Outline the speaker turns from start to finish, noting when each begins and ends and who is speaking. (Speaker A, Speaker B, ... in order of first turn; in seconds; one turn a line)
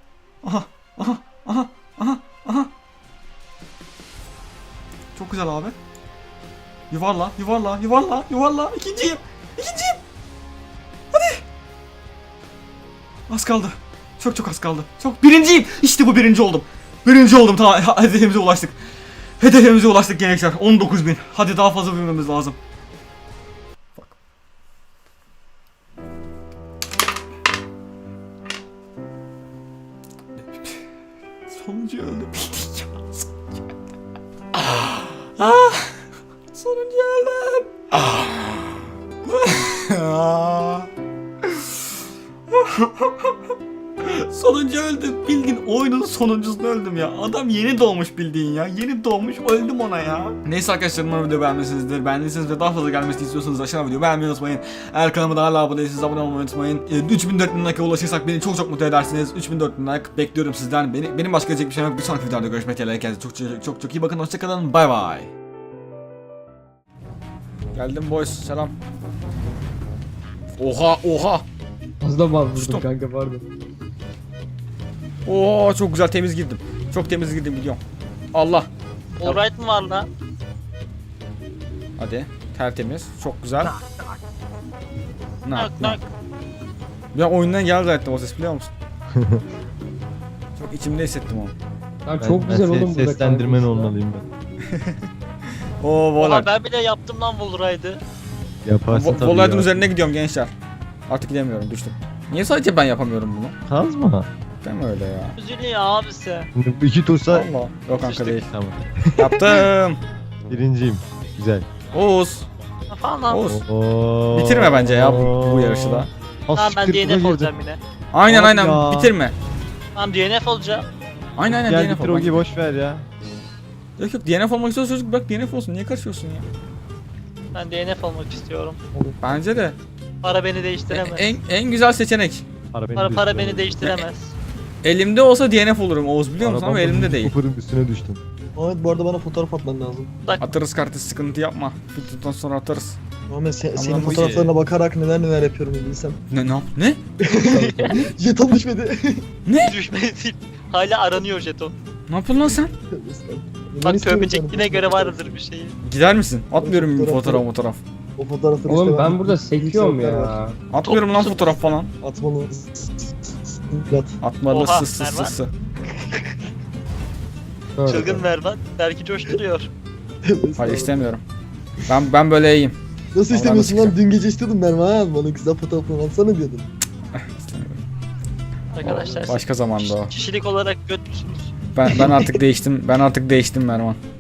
Speaker A: 0.4-2.7
Speaker A: 5.2-5.8
Speaker A: 6.9-10.0
Speaker A: 11.1-11.4
Speaker A: 13.3-18.8
Speaker A: 19.4-22.6
Speaker A: 31.5-33.6
Speaker A: 34.5-36.0
Speaker A: 36.5-40.9
Speaker A: 42.5-43.4
Speaker A: 44.0-65.3
Speaker A: 67.7-68.8
Speaker A: 70.6-71.5
Speaker B: 72.0-73.5
Speaker A: 72.5-72.9
Speaker A: 75.2-77.8
Speaker A: 78.3-78.7
Speaker C: 79.2-80.1
Speaker A: 82.0-83.8
Speaker B: 83.9-84.1
Speaker A: 85.4-86.0
Speaker C: 85.5-86.1
Speaker A: 87.1-88.7
Speaker D: 89.2-89.4
Speaker A: 90.6-91.5
Speaker B: 92.1-93.9
Speaker D: 92.2-94.3
Speaker A: 94.7-95.1
Speaker A: 95.8-96.5
Speaker C: 96.2-98.0
Speaker D: 98.7-99.9
Speaker A: 98.9-100.5
Speaker A: 101.1-103.5
Speaker D: 103.7-104.3
Speaker A: 104.6-105.4
Speaker C: 105.4-106.5
Speaker D: 106.5-107.5
Speaker A: 107.3-108.5
Speaker C: 108.0-108.4
Speaker D: 108.4-109.6
Speaker A: 109.2-110.0
Speaker D: 110.5-111.7
Speaker A: 111.9-112.5
Speaker C: 112.9-113.5
Speaker A: 113.3-113.6
Speaker D: 113.5-117.5
Speaker A: 114.3-116.1
Speaker C: 116.5-117.8
Speaker A: 118.1-119.3
Speaker D: 118.3-119.2
Speaker C: 120.0-120.9
Speaker A: 121.4-122.5
Speaker D: 121.5-123.1
Speaker A: 124.0-126.5
Speaker C: 127.5-128.8
Speaker A: 129.2-129.8
Speaker C: 130.2-131.4
Speaker A: 130.9-132.4
Speaker D: 132.7-133.8
Speaker C: 133.0-134.3
Speaker A: 134.8-137.3
Speaker D: 136.4-138.2
Speaker E: 138.6-140.1
Speaker A: 140.4-143.0
Speaker E: 143.3-146.2
Speaker A: 143.8-144.5
Speaker A: 146.3-147.0
Speaker E: 147.2-149.2
Speaker C: 147.5-147.9
Speaker B: 147.6-148.0
Speaker A: 149.5-149.8
Speaker C: 149.6-151.7
Speaker A: 152.1-152.7
Speaker E: 152.9-155.4
Speaker C: 153.8-155.8
Speaker A: 155.8-157.8
Speaker E: 156.5-157.4
Speaker E: 158.2-160.4
Speaker B: 158.6-160.6
Speaker A: 160.7-161.9
Speaker C: 160.8-161.6
Speaker E: 162.0-164.2
Speaker A: 164.2-165.5
Speaker C: 164.5-165.3
Speaker B: 167.8-168.2
Speaker C: 167.9-169.7
Speaker E: 170.2-171.1
Speaker A: 170.6-171.2
Speaker A: 171.9-172.8
Speaker E: 173.1-176.7
Speaker A: 173.3-174.0
Speaker A: 177.2-177.8
Speaker C: 178.7-181.5
Speaker A: 178.8-180.1
Speaker A: 181.7-184.0
Speaker E: 181.9-182.2